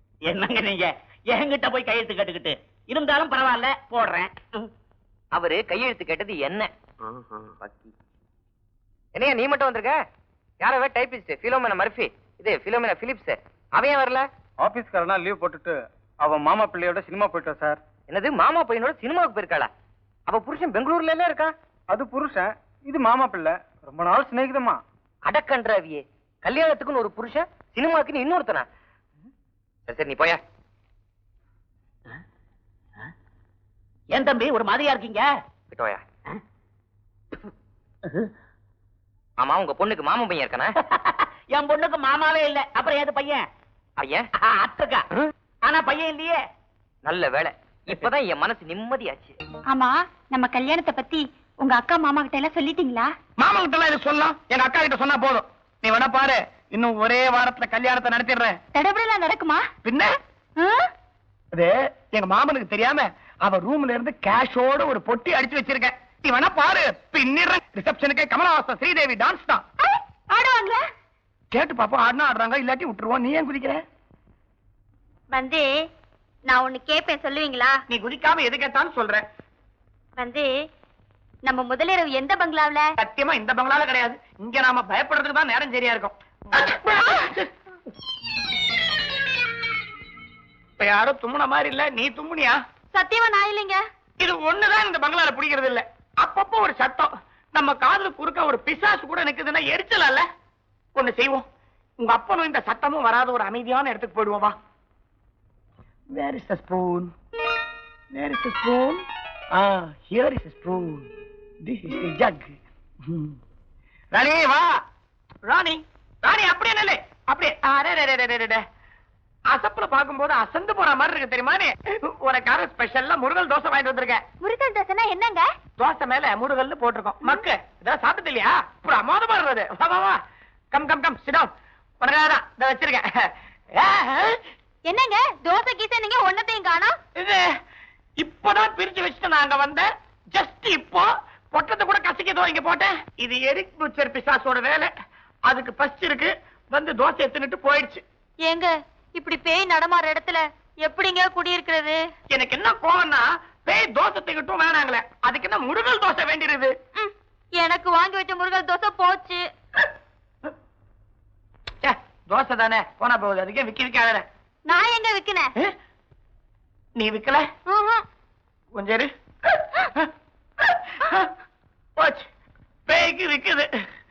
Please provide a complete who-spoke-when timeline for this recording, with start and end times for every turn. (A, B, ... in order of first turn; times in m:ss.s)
0:00.2-0:04.7 A
0:05.3-0:06.7 B
0:07.6-0:07.9 B
0:09.1-0:10.0 B
0:10.6-0:14.2 B
0:14.6-0:15.7 C
0:16.3-0:17.7 C
0:18.1-0:19.7 B
0:20.3-0:21.5 B
0:21.9-0:24.8 C
0:25.2-0:28.6 B
0:29.9-0:30.4 B
0:34.1-0:35.3 A
0:35.7-0:36.0 B
0:39.4-0:40.7 B
0:40.9-0:43.4 A
0:44.0-0:44.3 B
0:44.4-0:45.0 A
0:45.6-0:46.4 A
0:47.0-0:49.4 B
0:49.7-0:53.1 D
0:53.4-0:58.6 E
0:58.7-0:59.6 D
0:59.8-1:00.1 E
1:00.6-1:00.8 D
1:01.5-1:09.6 E
1:09.8-1:10.8 D
1:11.5-1:13.8 E
1:15.3-1:15.7 D
1:16.5-1:17.8 D
1:17.9-1:19.2 E
1:20.2-1:20.5 D
1:21.4-1:22.8 D
1:23.0-1:27.5 E
1:30.8-1:32.6 E
1:32.9-1:33.8 D
1:34.2-1:40.2 E
1:40.9-1:41.4 E
1:42.0-1:44.6 E
1:46.1-1:47.1 E
1:48.1-1:49.0 E
1:49.5-1:51.0 E
1:51.6-1:52.5 E
1:53.1-1:53.3 E
1:54.1-1:54.8 E
1:55.4-1:58.6 E
1:59.5-2:04.2 E
2:04.4-2:05.4 D
2:05.8-2:10.2 E
2:10.7-2:11.5 E
2:12.0-2:14.4 E
2:14.9-2:17.0 D
2:17.2-2:17.5 E
2:18.2-2:24.9 E
2:25.4-2:28.0 E
2:28.4-2:32.0 D
2:32.3-2:36.7 E
2:37.0-2:39.4 D
2:41.8-2:44.2 E
2:44.7-2:45.5 D
2:47.0-2:47.4 E
2:47.7-2:48.0 D
2:48.7-2:49.1 E
2:52.0-2:52.2 E
2:52.9-2:53.6 E